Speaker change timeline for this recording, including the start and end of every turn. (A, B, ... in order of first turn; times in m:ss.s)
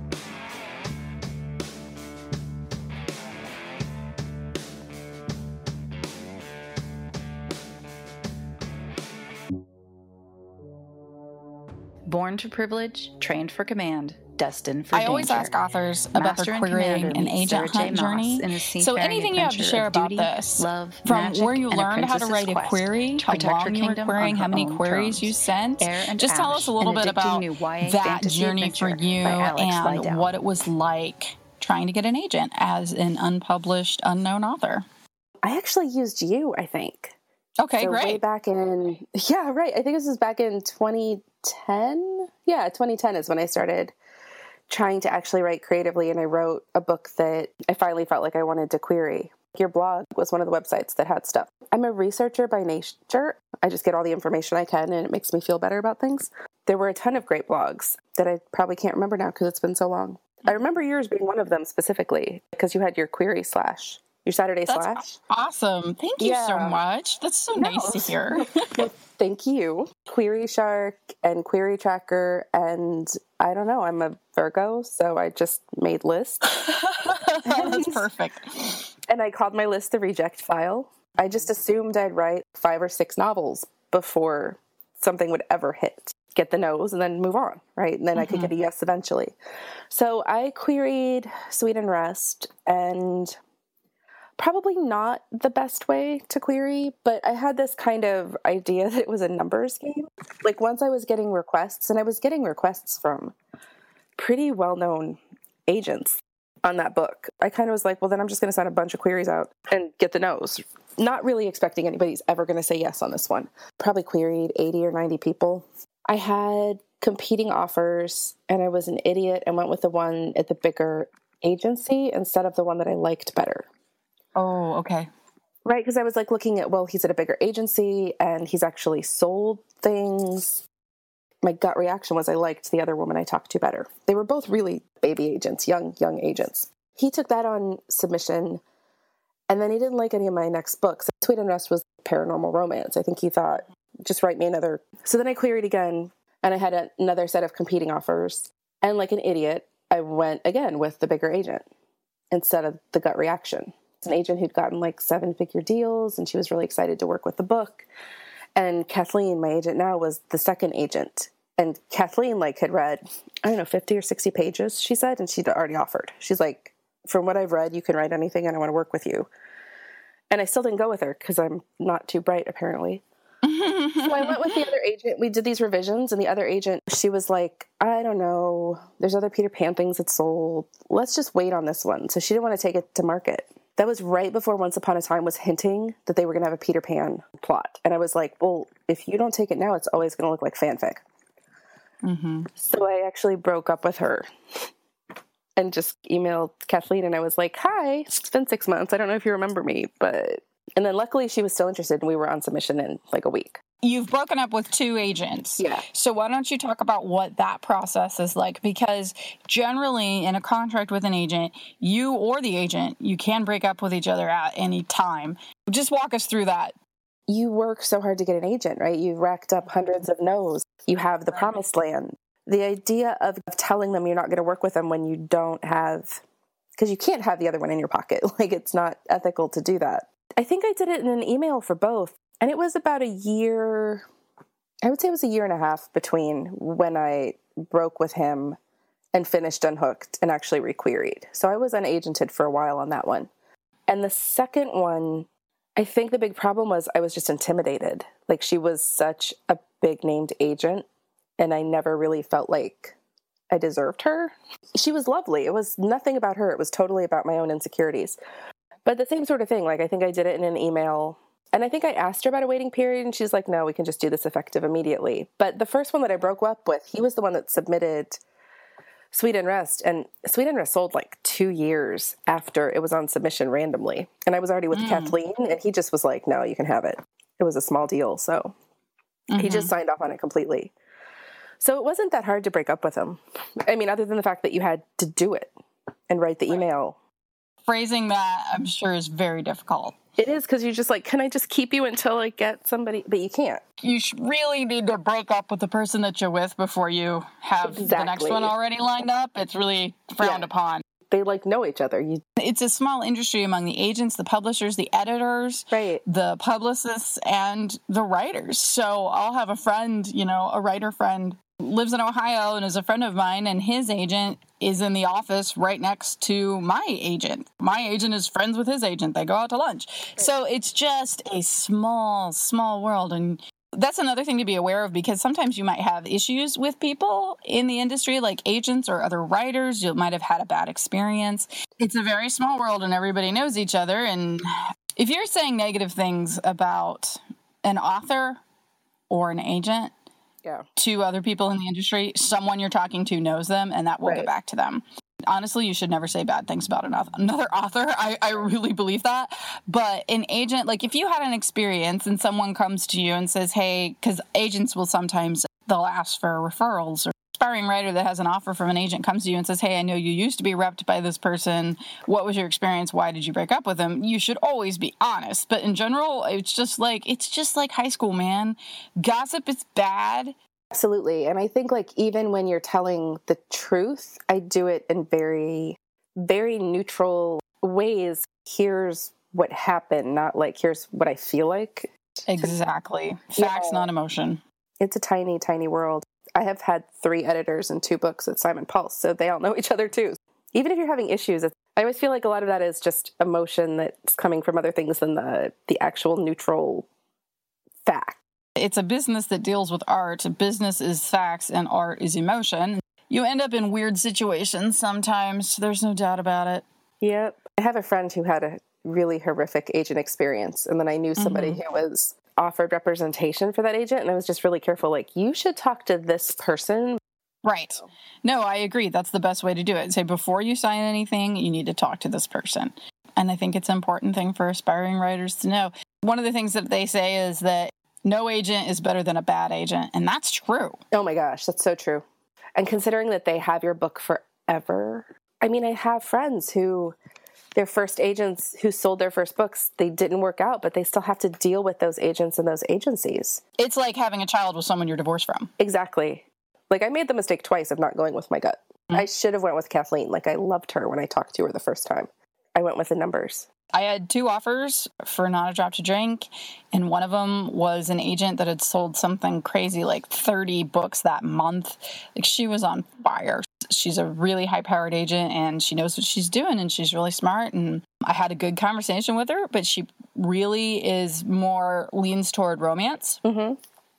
0:12.1-0:15.5 A
0:14.9-0:34.8 B
0:16.1-0:30.3 A
0:35.4-0:37.2 C
0:37.6-0:38.2 B
0:37.8-0:44.0 C
0:44.7-1:05.1 C
1:04.7-1:08.8 B
1:06.2-1:06.8 C
1:07.6-1:16.5 C
1:16.5-1:18.8 B
1:17.4-1:18.1 C
1:19.1-1:29.3 C
1:28.2-1:28.5 B
1:29.9-1:33.4 C
1:34.4-1:43.4 C
1:44.2-2:03.7 C
2:04.4-2:05.1 B
2:05.6-2:10.6 C
2:11.4-2:18.6 C
2:19.5-2:31.6 C
2:32.3-2:37.9 C
2:38.6-2:49.3 C
2:50.3-2:53.0 C
2:53.4-2:54.7 B
2:54.0-3:11.0 C
3:12.0-3:12.5 B
3:12.6-3:14.3 C
3:15.6-3:23.6 C
3:23.8-3:36.8 B
3:25.6-3:25.8 C
3:37.3-3:46.2 C
3:41.3-3:41.6 B
3:46.8-3:54.1 C
3:54.8-3:58.6 C
3:59.1-4:03.3 C
4:03.9-4:10.9 C
4:11.4-4:13.0 C
4:13.5-4:18.2 C
4:18.8-4:28.2 C
4:29.1-4:38.6 C
4:34.7-4:35.1 B
4:39.3-4:39.7 B
4:39.4-4:40.7 C
4:41.6-4:45.5 C
4:46.1-4:47.0 C
4:47.7-4:50.0 B
4:50.2-4:53.6 C
4:53.8-5:00.8 B
4:57.6-4:58.5 C
5:00.2-5:00.5 C
5:01.1-5:02.2 C
5:02.4-5:38.4 B
5:05.7-5:06.0 C
5:39.1-5:39.9 B
5:40.8-6:10.4 B
5:44.0-5:44.3 C
6:10.7-6:22.5 C
6:22.3-6:24.4 B
6:23.4-6:23.9 C
6:24.8-6:36.9 C
6:37.8-6:38.2 C
6:38.6-6:46.6 B
6:47.0-6:57.0 C
6:51.2-6:51.6 B
6:57.4-7:10.8 B
7:10.9-7:12.0 C
7:12.6-7:17.0 C
7:17.6-7:23.4 C
7:23.6-7:25.5 B
7:25.6-7:33.5 C
7:33.7-7:53.2 B
7:53.2-7:53.6 C